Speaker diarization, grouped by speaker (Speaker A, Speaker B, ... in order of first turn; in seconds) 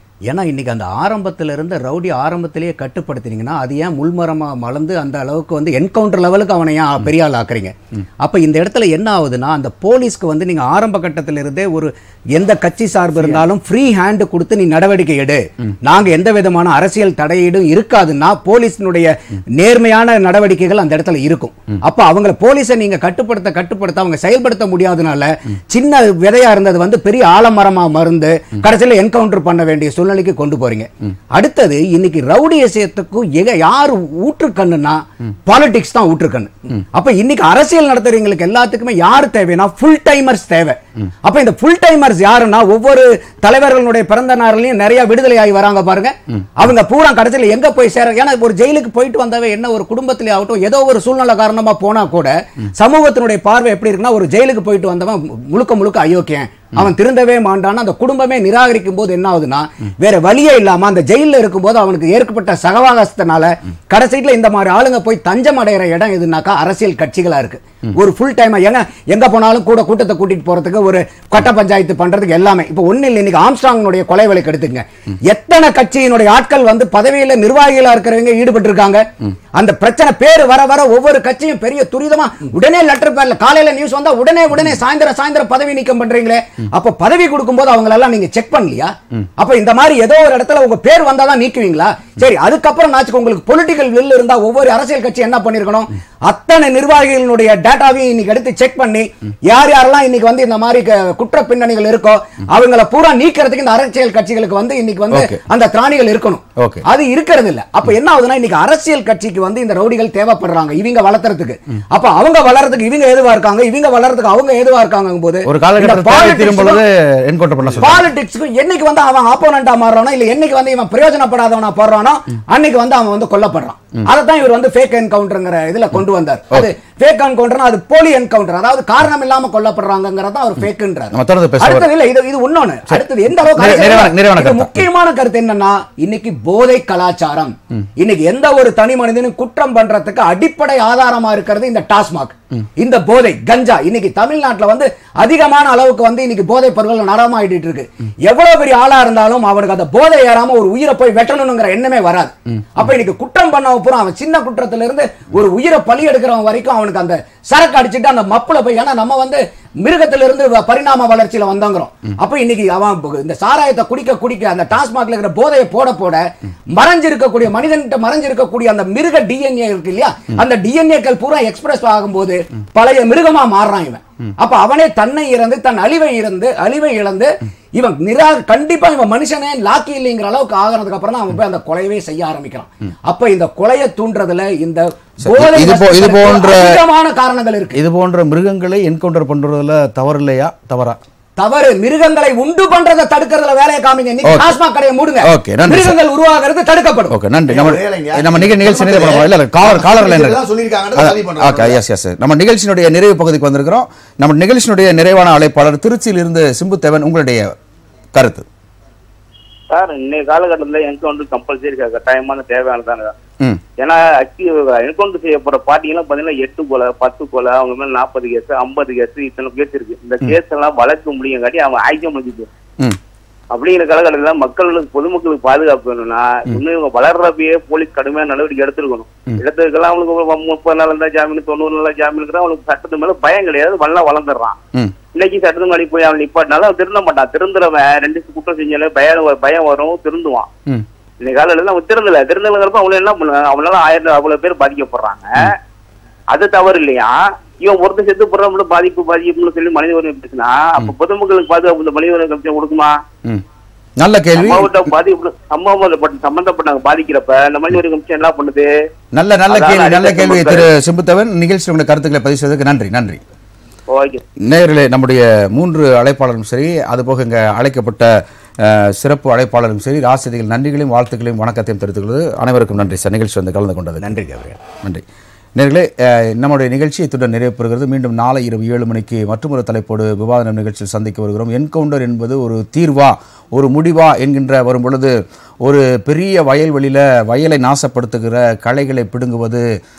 Speaker A: 0.3-116.8, 117.8-187.8, 191.4-197.2, 274.0-274.6
Speaker B: 105.1-105.4, 106.6-106.8, 115.5-118.0, 131.1-131.9, 133.5-134.9, 185.2-186.8, 187.7-191.0, 194.2-194.6, 195.2-196.0, 197.1-200.4, 201.0-207.5, 208.1-208.4, 254.0-254.8, 259.1-263.2, 264.4-268.1, 268.6-289.6
Speaker C: 197.5-201.8
Speaker D: 209.7-213.2, 213.8-222.5, 223.5-234.6, 235.1-240.5, 241.2-245.6, 246.3-253.0, 254.4-258.7, 259.5-260.7, 263.9-264.2